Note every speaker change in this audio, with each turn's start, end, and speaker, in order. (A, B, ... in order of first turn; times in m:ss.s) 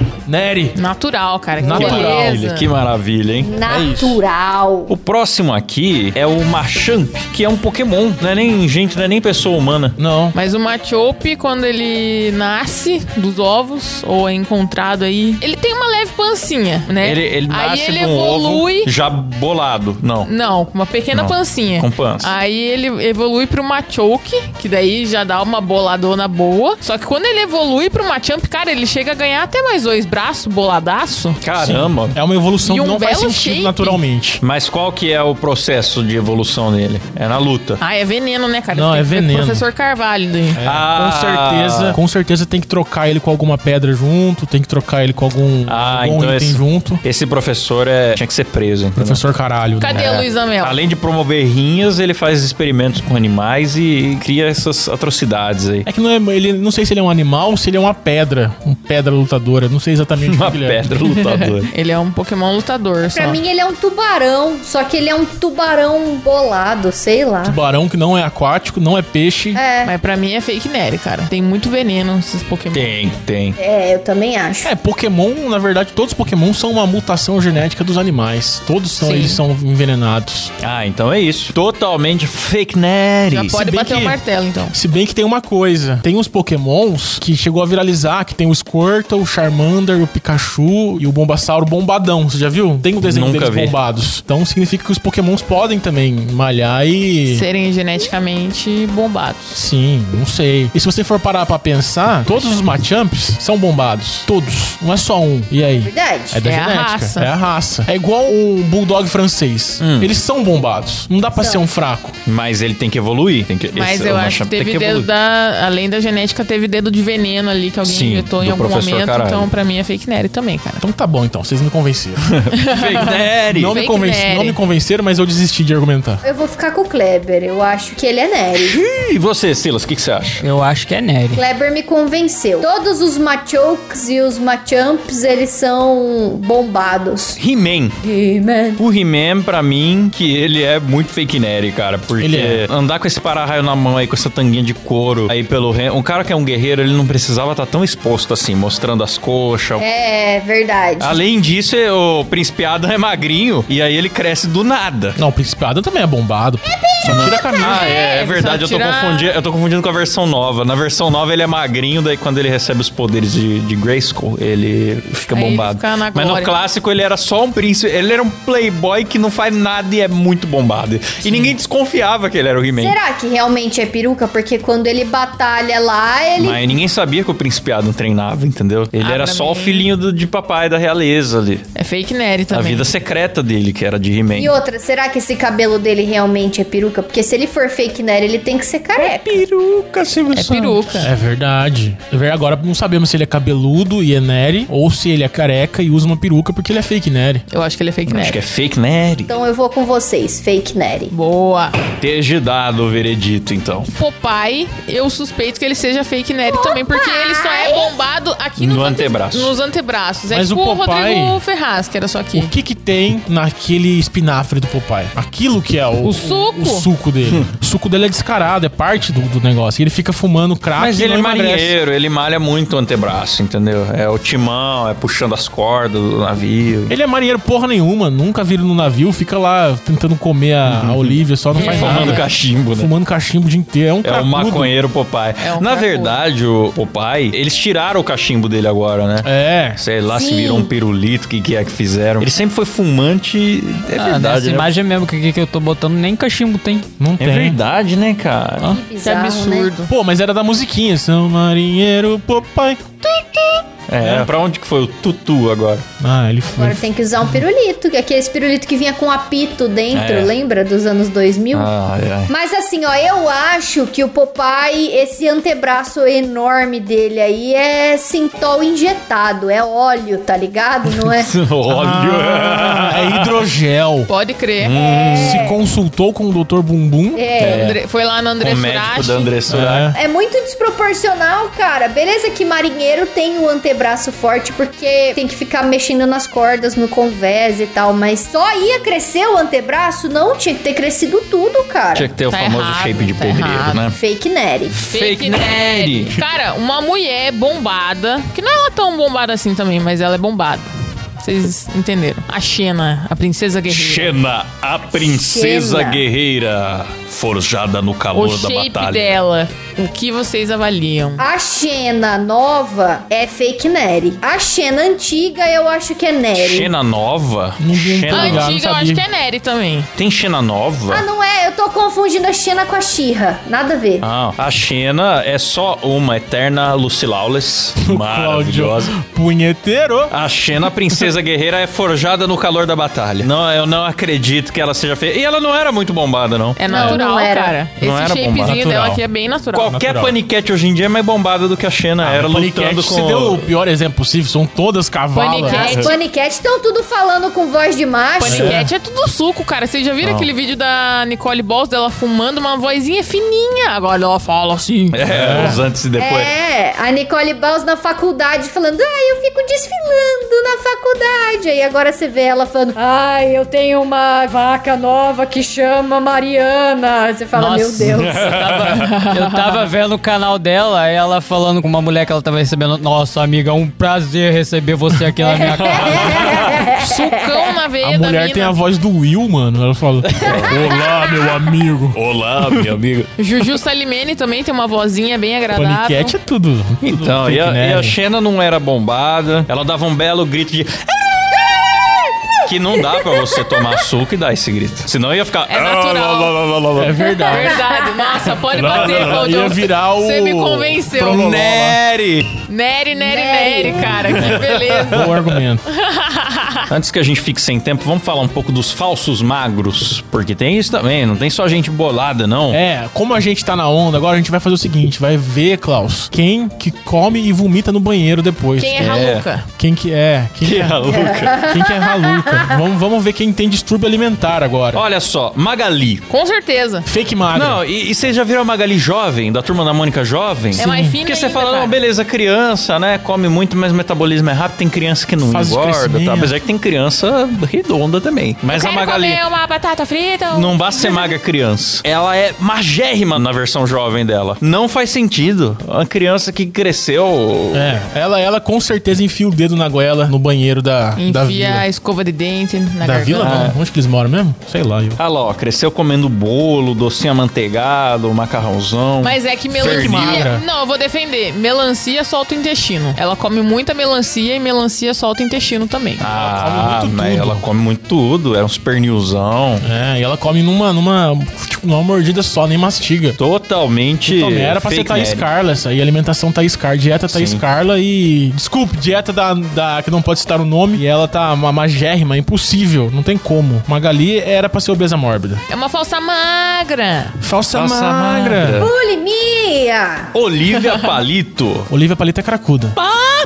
0:00.2-0:00.8 A
0:00.7-0:02.7 B
0:01.6-0:02.4 A
0:01.7-0:03.8 C
0:03.4-0:04.9 D
0:03.7-0:04.0 A
0:04.9-0:10.0 C
0:10.0-0:10.3 A
0:10.3-0:18.9 B
0:17.0-0:20.3 C
0:20.2-0:31.4 B
0:21.1-0:22.3 C
0:31.4-0:32.2 C
0:31.6-0:34.4 A
0:32.6-0:34.0 B
0:34.4-0:37.8 C
0:37.8-0:40.6 B
0:38.7-0:39.6 A
0:40.5-0:47.0 A
0:40.6-0:42.0 C
0:45.6-0:49.2 C
0:49.0-0:50.2 A
0:49.8-0:50.8 B
0:49.9-0:55.9 C
0:55.8-1:00.9 A
1:00.2-1:01.7 C
1:01.3-1:03.4 B
1:03.0-1:07.6 D
1:07.4-1:09.6 A
1:09.5-1:09.9 D
1:09.8-1:12.9 B
1:12.7-1:13.6 C
1:13.6-1:14.7 D
1:14.6-1:20.5 A
1:19.0-1:19.4 B
1:20.6-1:23.6 C
1:23.3-1:24.7 B
1:23.5-1:24.1 A
1:24.7-1:37.4 A
1:33.0-1:33.8 C
1:37.3-1:39.6 B
1:39.5-1:52.2 A
1:45.8-1:46.4 D
1:46.4-1:47.3 B
1:49.8-1:50.1 C
1:51.3-1:51.6 D
1:52.2-1:55.1 C
1:53.7-2:00.8 B
1:57.8-1:59.5 C
2:00.8-2:02.2 A
2:02.2-2:03.8 C
2:02.5-2:04.6 B
2:03.5-2:06.2 A
2:06.2-2:08.8 D
2:08.5-2:10.4 C
2:10.4-2:11.4 E
2:11.3-2:17.4 D
2:17.4-2:18.0 C
2:18.0-2:18.8 D
2:18.8-2:29.8 C
2:22.2-2:22.6 A
2:29.8-2:31.2 D
2:31.0-2:35.2 C
2:35.2-2:37.8 A
2:36.7-2:37.9 D
2:37.0-2:53.0 C
2:37.6-2:39.3 B
2:45.3-2:46.5 B
2:52.8-2:56.6 D
2:56.4-3:01.6 C
2:59.0-2:59.9 B
3:01.8-3:02.9 B
3:02.5-3:04.6 C
3:04.4-3:09.4 D
3:09.0-3:11.1 C
3:10.3-3:11.1 B
3:11.0-3:17.4 A
3:17.5-3:18.4 B
3:18.1-3:19.3 C
3:19.3-3:21.1 D
3:21.1-3:21.8 B
3:22.0-3:23.9 C
3:23.9-3:32.5 B
3:26.5-3:28.0 D
3:28.6-3:29.5 C
3:30.3-3:31.4 A
3:32.3-3:41.7 A
3:36.0-3:36.9 B
3:40.8-3:46.9 C
3:46.9-3:54.7 A
3:50.6-3:52.9 C
3:51.6-3:52.3 B
3:54.0-4:04.7 C
3:55.4-3:56.2 B
3:59.2-3:59.8 A
4:00.1-4:00.7 D
4:04.0-4:06.9 E
4:07.0-4:07.6 A
4:07.2-4:08.8 C
4:08.6-4:09.7 D
4:09.0-4:09.9 B
4:09.9-4:14.3 A
4:13.9-4:15.8 C
4:16.0-4:17.4 A
4:16.5-4:21.7 D
4:19.9-4:20.3 C
4:21.5-4:22.3 C
4:22.3-4:31.3 D
4:30.9-4:33.4 C
4:31.7-4:34.1 A
4:34.1-4:34.8 B
4:34.6-4:35.4 C
4:34.7-4:35.6 D
4:35.2-4:37.2 A
4:37.1-4:37.7 D
4:37.4-4:37.8 C
4:37.4-4:39.3 B
4:38.4-4:39.9 C
4:39.5-4:40.0 A
4:39.9-4:52.1 D
4:51.9-4:54.0 C
4:52.3-4:53.8 B
4:53.9-4:54.8 D
4:54.7-4:56.2 C
4:54.9-5:04.2 B
5:03.7-5:09.2 C
5:04.9-5:06.0 D
5:08.1-5:11.2 B
5:11.2-5:16.7 D
5:16.3-5:18.5 C
5:17.6-5:19.0 A
5:18.1-5:19.9 B
5:20.0-5:21.0 C
5:20.9-5:24.0 D
5:24.0-5:28.9 C
5:27.8-5:30.1 A
5:30.1-5:36.9 C
5:36.6-5:39.7 B
5:36.7-5:37.6 D
5:37.8-5:38.6 C
5:38.4-5:39.0 A
5:39.5-5:43.4 C
5:39.7-5:40.1 A
5:42.0-5:45.6 A
5:45.1-5:46.0 B
5:45.5-5:48.6 D
5:45.6-5:45.9 C
5:48.2-5:55.5 B
5:48.2-5:48.7 A
5:50.0-5:50.3 C
5:54.9-5:56.3 C
5:55.1-5:55.6 A
5:56.0-6:08.3 D
6:07.3-6:16.4 E
6:07.8-6:08.9 C
6:08.7-6:09.6 B
6:15.2-6:17.4 D
6:15.6-6:16.7 C
6:16.7-6:18.6 B
6:17.8-6:22.7 A
6:20.2-6:20.7 C
6:21.9-6:23.1 C
6:23.2-6:26.2 B
6:25.5-6:28.0 A
6:26.8-6:31.8 C
6:32.4-6:37.1 C
6:32.9-6:33.3 D
6:35.5-6:36.4 B
6:36.8-6:37.6 A
6:37.3-6:41.2 B
6:37.5-6:38.2 D
6:38.5-6:41.8 A
6:38.6-6:39.2 C
6:41.0-6:42.3 C
6:42.5-6:45.1 B
6:42.9-6:44.0 D
6:43.8-6:45.4 C
6:44.9-6:45.6 A
6:45.6-6:46.7 B
6:46.7-6:52.6 C
6:52.5-6:59.0 A
6:58.6-6:59.4 B
6:58.8-6:59.3 C
6:59.5-7:00.8 A
7:00.4-7:01.5 C
7:00.9-7:02.4 D
7:01.4-7:04.8 A
7:04.7-7:06.0 C
7:06.1-7:06.8 B
7:06.8-7:07.6 A
7:07.3-7:19.2 C
7:10.5-7:11.8 B
7:10.6-7:11.0 A
7:15.2-7:16.3 A
7:18.5-7:21.1 B
7:20.3-7:27.8 C
7:27.5-7:31.6 A
7:31.0-7:33.5 B
7:32.8-7:35.0 A
7:33.2-7:33.6 C
7:35.0-7:40.3 C
7:39.0-7:46.0 B
7:39.6-7:40.4 A
7:46.0-7:49.6 C
7:46.1-7:47.4 A
7:49.6-7:53.2 A
7:53.2-7:55.3 C
7:54.0-8:05.4 A
7:57.1-7:57.4 C
8:05.5-8:07.1 B
8:07.2-8:08.7 A
8:07.5-8:08.7 C
8:08.6-8:10.1 D
8:10.1-8:11.7 C
8:11.7-8:12.8 A
8:12.8-8:13.1 C